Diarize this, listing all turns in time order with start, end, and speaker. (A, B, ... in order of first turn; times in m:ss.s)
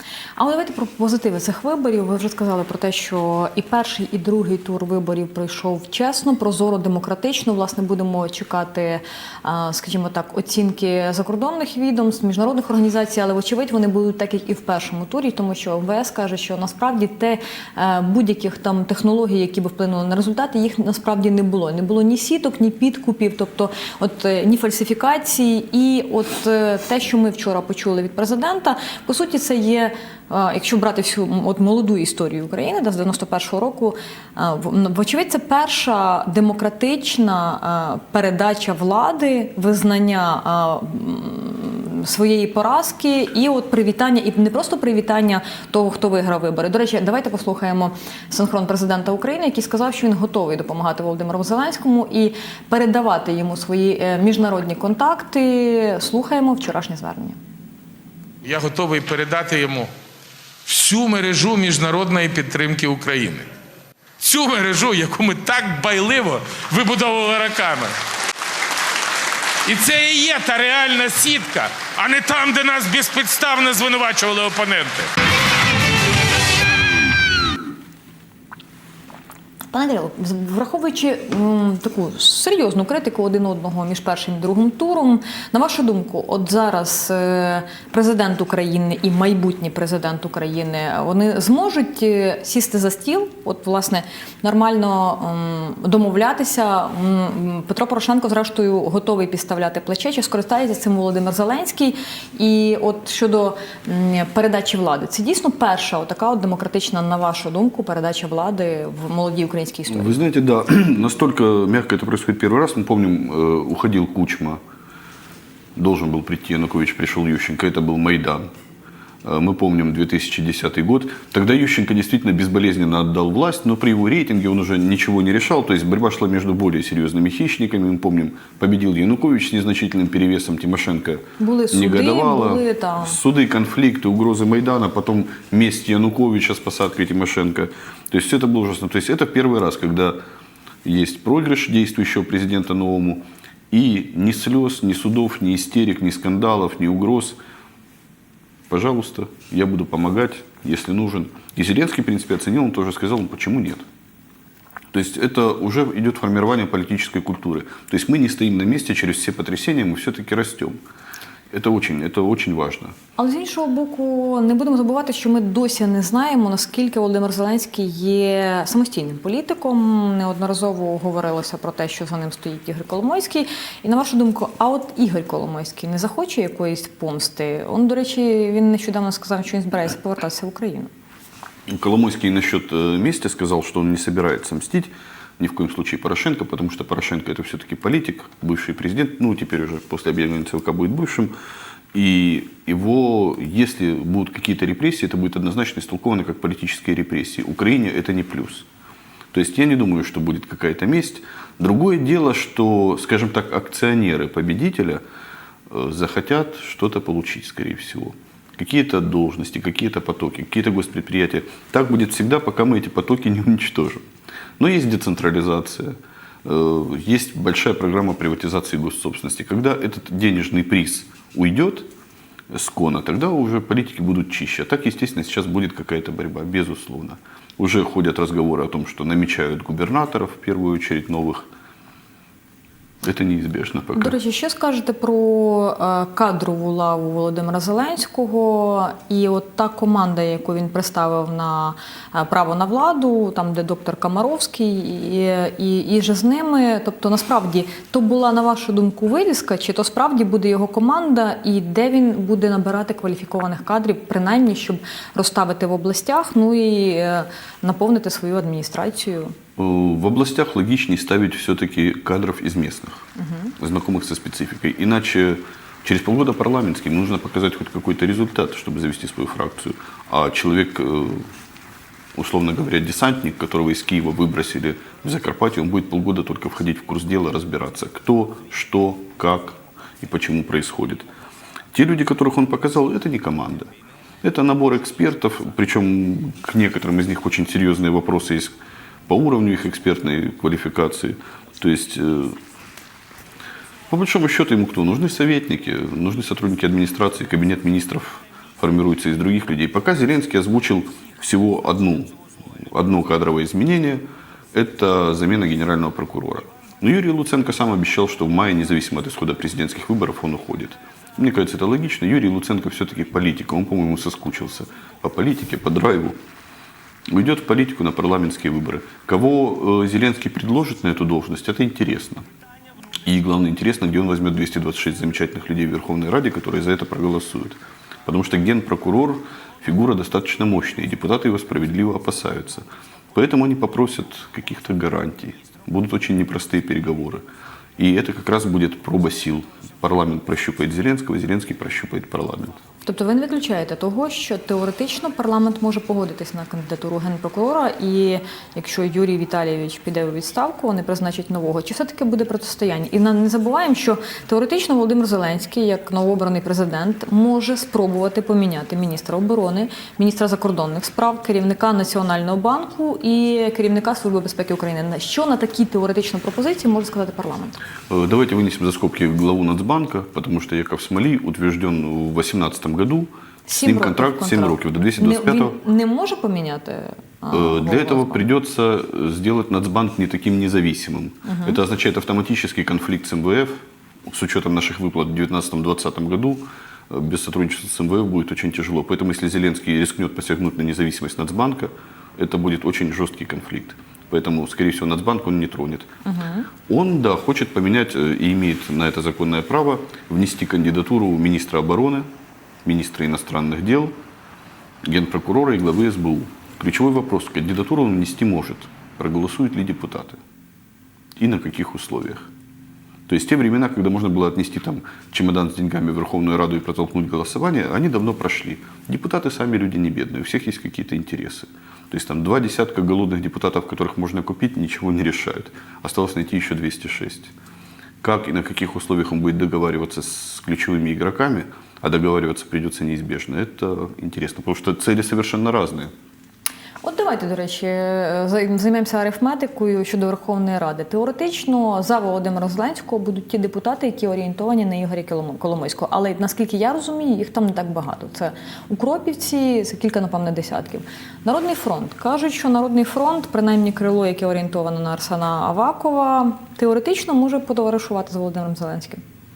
0:00.4-0:57.4 A
0:58.4-0:59.9 B
1:00.6-1:03.5 B
1:04.2-1:08.0 B
1:09.6-1:15.1 B
1:19.7-1:50.2 A
1:49.9-1:54.6 C
1:55.8-1:58.5 C
1:59.2-2:20.2 C
2:11.4-2:13.2 A
2:20.8-2:27.4 C
2:28.7-2:33.8 C
2:34.9-2:40.8 C
2:41.5-2:42.9 C
2:43.2-3:00.9 A
3:01.7-3:11.3 C
3:11.9-3:18.6 C
3:19.3-3:25.0 C
3:25.7-3:34.0 C
3:34.6-3:41.9 C
3:42.5-3:51.5 C
3:53.0-3:54.2 C
3:53.9-4:19.3 A
4:19.6-4:23.1 C
4:23.2-4:23.5 A
4:23.6-4:31.2 C
4:32.1-4:41.0 C
4:41.7-4:43.7 C
4:44.2-4:48.5 C
4:49.1-4:52.4 C
4:53.9-5:04.0 C
5:04.5-5:16.1 C
5:17.1-5:22.2 C
5:23.0-5:37.2 C
5:37.8-5:42.6 C
5:42.8-6:07.6 A
6:07.9-6:15.6 C
6:13.5-6:18.2 A
6:17.3-6:35.9 C
6:21.2-6:21.6 A
6:36.0-6:36.5 A
6:36.7-6:42.1 C
6:42.6-6:43.9 C
6:44.8-6:50.2 C
6:51.2-6:52.3 C
6:53.1-7:07.3 C
7:08.0-7:15.9 C
7:16.8-7:39.0 A